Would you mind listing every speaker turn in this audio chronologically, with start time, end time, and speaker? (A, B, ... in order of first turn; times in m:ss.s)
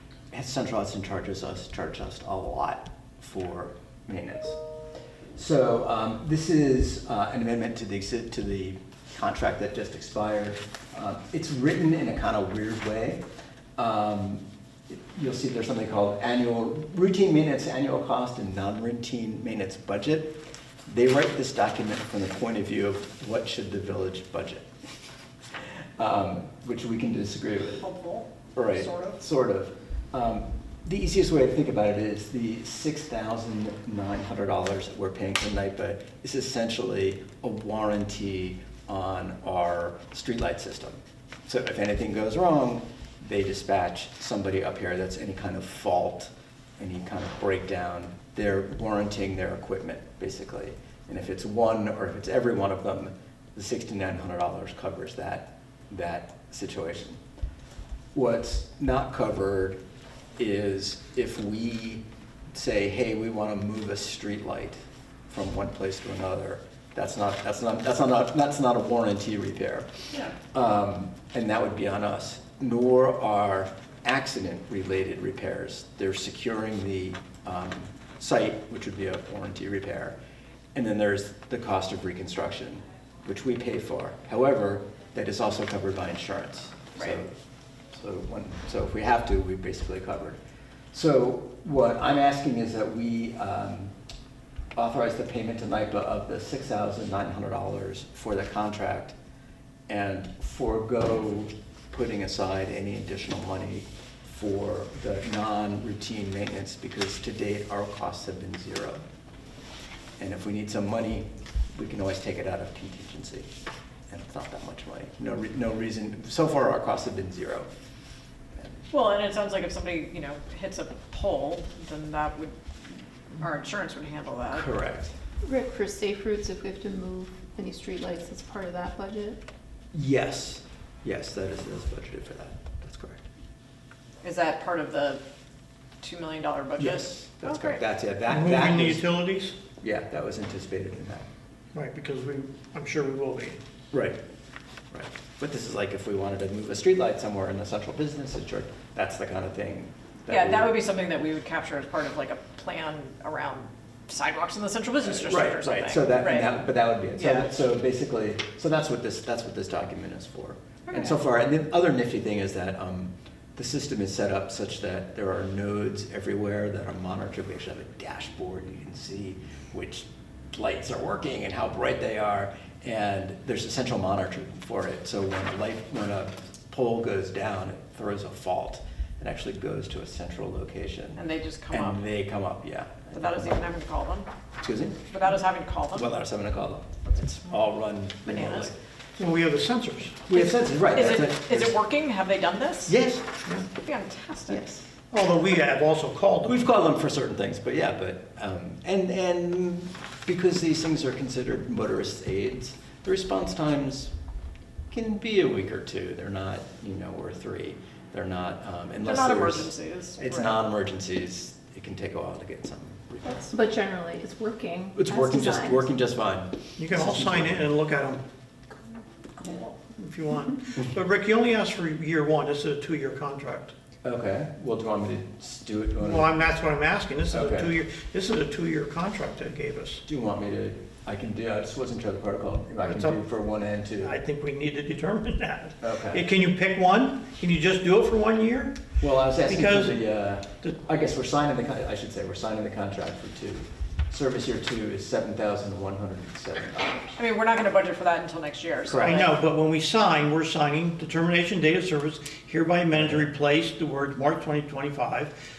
0:00.3-0:04.6 A
0:05.3-0:13.2 A
0:13.8-0:24.7 A
0:26.0-0:27.9 A
0:27.8-0:29.2 B
0:28.5-0:57.2 A
0:58.1-0:59.8 A
1:00.4-1:09.9 A
1:10.4-1:20.2 A
1:20.7-1:27.3 A
1:27.9-1:30.4 A
1:30.9-1:33.9 A
1:34.7-1:39.1 A
1:39.9-1:49.0 A
1:50.2-1:53.5 A
1:54.1-1:57.7 A
1:58.5-1:58.8 A
1:58.9-2:02.5 B
2:03.3-2:04.7 B
2:04.5-2:05.1 A
2:05.4-2:09.4 C
2:09.9-2:13.2 A
2:14.2-2:15.2 B
2:16.0-2:17.8 B
2:16.8-2:19.1 A
2:18.3-2:19.6 D
2:19.8-2:21.2 A
2:21.7-2:23.6 D
2:23.9-2:24.2 A
2:24.9-2:30.8 A
2:30.3-2:36.6 B
2:35.1-3:03.6 A
2:37.1-2:37.5 B
2:40.9-2:41.1 B
3:01.2-3:02.0 B
3:03.1-3:04.3 B
3:04.6-3:05.0 A
3:05.1-3:06.1 B
3:05.9-3:08.8 A
3:08.3-3:08.7 B
3:09.2-3:10.2 D
3:10.3-3:11.8 A
3:10.3-3:12.9 B
3:12.9-3:13.4 A
3:13.8-3:14.7 B
3:14.5-3:14.8 A
3:15.1-3:16.6 D
3:16.4-3:24.1 A
3:24.9-3:33.6 A
3:29.0-3:30.6 B
3:33.5-3:35.8 C
3:34.9-3:37.7 A
3:36.8-3:38.2 D
3:39.9-3:43.7 D
3:44.0-3:46.5 A
3:46.0-3:50.0 D
3:47.3-3:47.7 A
3:50.0-3:54.2 A
3:52.8-3:53.2 D
3:54.0-3:58.8 D
3:55.8-3:56.2 A
3:59.0-4:07.2 A
3:59.4-4:00.0 D
4:07.2-4:09.4 B
4:08.9-4:15.3 D